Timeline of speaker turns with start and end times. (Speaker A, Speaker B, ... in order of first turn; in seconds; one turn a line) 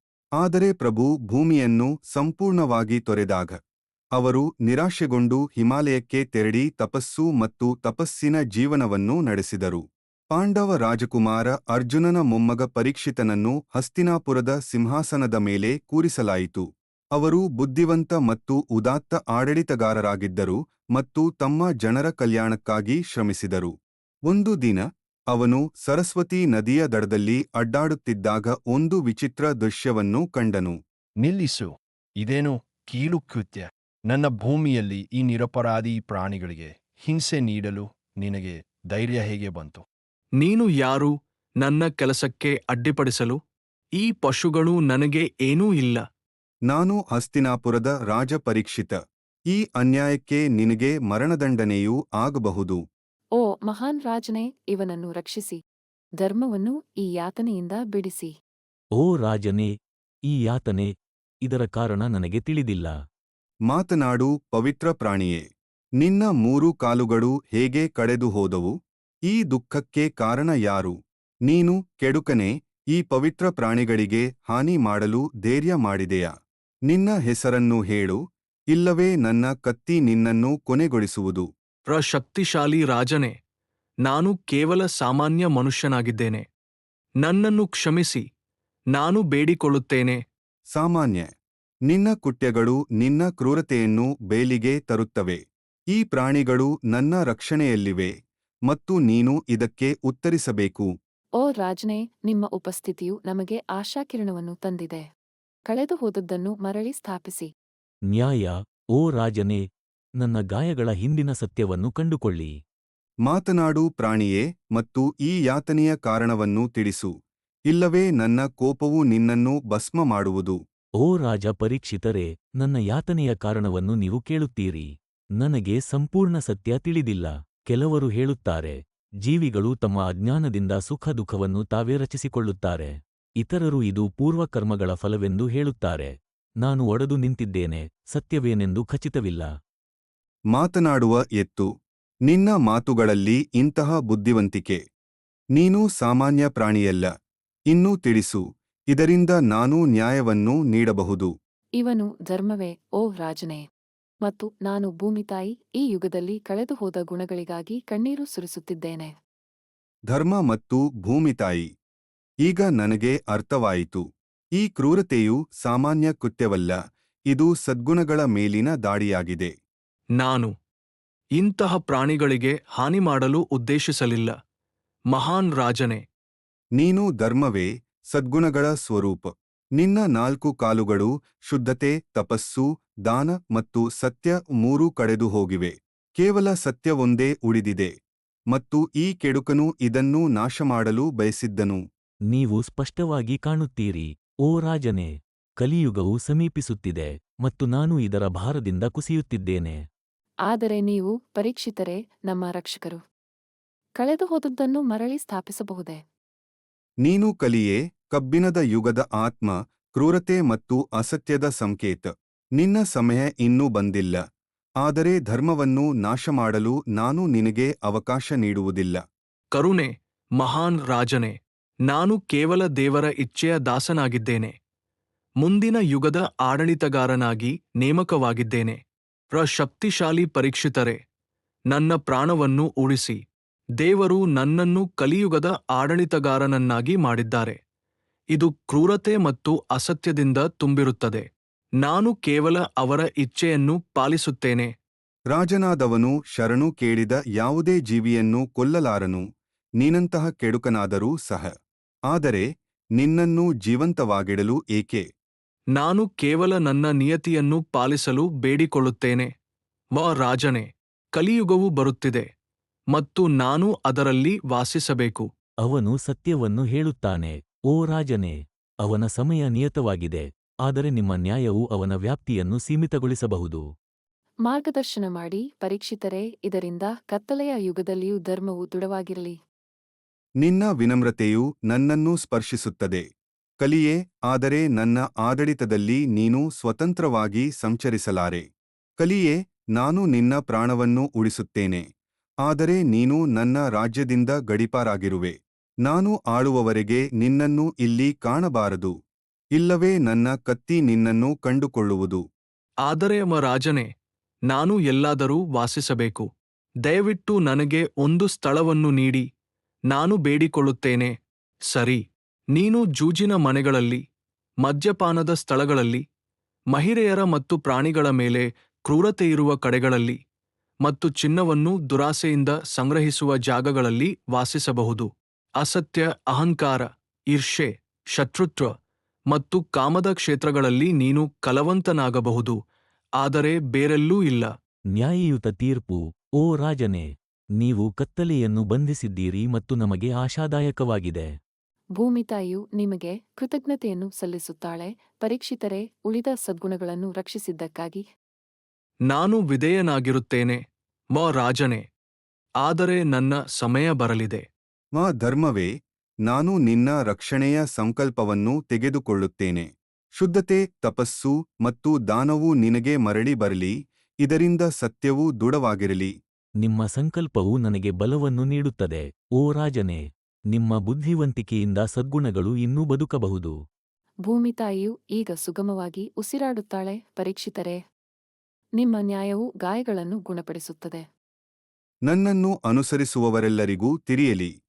Speaker A: 0.4-3.6
Speaker A: 4.2-23.7
Speaker A: 24.3-30.8
Speaker B: 31.2-39.8
Speaker C: 40.4-43.4
Speaker C: 44.0-46.0
Speaker A: 46.7-49.0
Speaker A: 49.5-52.8
Speaker D: 53.4-55.6
Speaker D: 56.2-58.3
Speaker E: 59.0-59.7
Speaker E: 60.3-60.9
Speaker E: 61.4-62.9
Speaker A: 63.7-65.4
Speaker A: 66.0-68.7
Speaker A: 69.3-70.9
Speaker A: 71.5-76.3
Speaker A: 76.9-78.2
Speaker A: 78.7-81.5
Speaker C: 81.9-83.3
Speaker C: 84.0-86.4
Speaker C: 87.2-88.2
Speaker C: 88.9-90.2
Speaker A: 90.7-91.3
Speaker A: 91.9-95.4
Speaker A: 95.9-98.1
Speaker A: 98.7-100.9
Speaker D: 101.4-105.0
Speaker D: 105.7-107.5
Speaker E: 108.1-109.6
Speaker E: 110.2-112.5
Speaker A: 113.2-117.1
Speaker A: 117.7-120.6
Speaker E: 121.0-136.1
Speaker E: 136.6-139.5
Speaker A: 140.5-141.7
Speaker A: 142.3-144.8
Speaker A: 145.6-147.1
Speaker A: 147.7-151.3
Speaker D: 151.8-153.6
Speaker D: 154.2-159.1
Speaker A: 160.1-161.7
Speaker A: 162.4-164.0
Speaker A: 164.6-166.8
Speaker A: 167.3-169.5
Speaker C: 170.2-170.5
Speaker C: 171.4-174.3
Speaker C: 175.1-176.0
Speaker A: 176.8-187.9
Speaker A: 188.5-191.8
Speaker E: 192.3-199.8
Speaker D: 200.5-203.0
Speaker D: 204.0-206.0
Speaker A: 207.0-214.2
Speaker A: 214.8-219.0
Speaker C: 219.5-221.3
Speaker C: 221.9-224.5
Speaker C: 225.4-228.8
Speaker C: 229.3-231.0
Speaker C: 231.7-233.2
Speaker C: 233.8-237.6
Speaker C: 238.3-241.2
Speaker C: 241.8-244.7
Speaker A: 245.3-249.2
Speaker A: 249.8-251.5
Speaker A: 252.1-252.4
Speaker A: 253.0-255.0
Speaker C: 255.8-259.3
Speaker C: 259.9-262.2
Speaker C: 262.9-265.3
Speaker E: 265.6-273.6
Speaker D: 274.4-279.4
Speaker A: 280.4-283.0
Speaker A: 283.6-288.4
Speaker A: 289.0-291.8
Speaker A: 292.4-298.9
Speaker A: 299.6-302.2
Speaker C: 302.9-303.9
Speaker C: 304.5-306.3
Speaker C: 306.9-309.2
Speaker C: 309.9-311.1
Speaker C: 311.7-312.0
Speaker C: 312.6-314.0
Speaker C: 314.6-316.0
Speaker C: 316.7-320.2
Speaker C: 320.8-328.7
Speaker C: 329.3-332.6
Speaker C: 333.2-334.5
Speaker E: 334.9-341.3
Speaker D: 342.0-348.0
Speaker C: 349.1-350.6
Speaker C: 351.1-351.8
Speaker C: 352.6-354.4
Speaker A: 354.9-355.7
Speaker A: 356.2-366.1
Speaker E: 366.6-370.0
Speaker E: 370.5-373.5
Speaker D: 374.3-377.8
Speaker D: 378.8-381.0
Speaker A: 382.1-384.5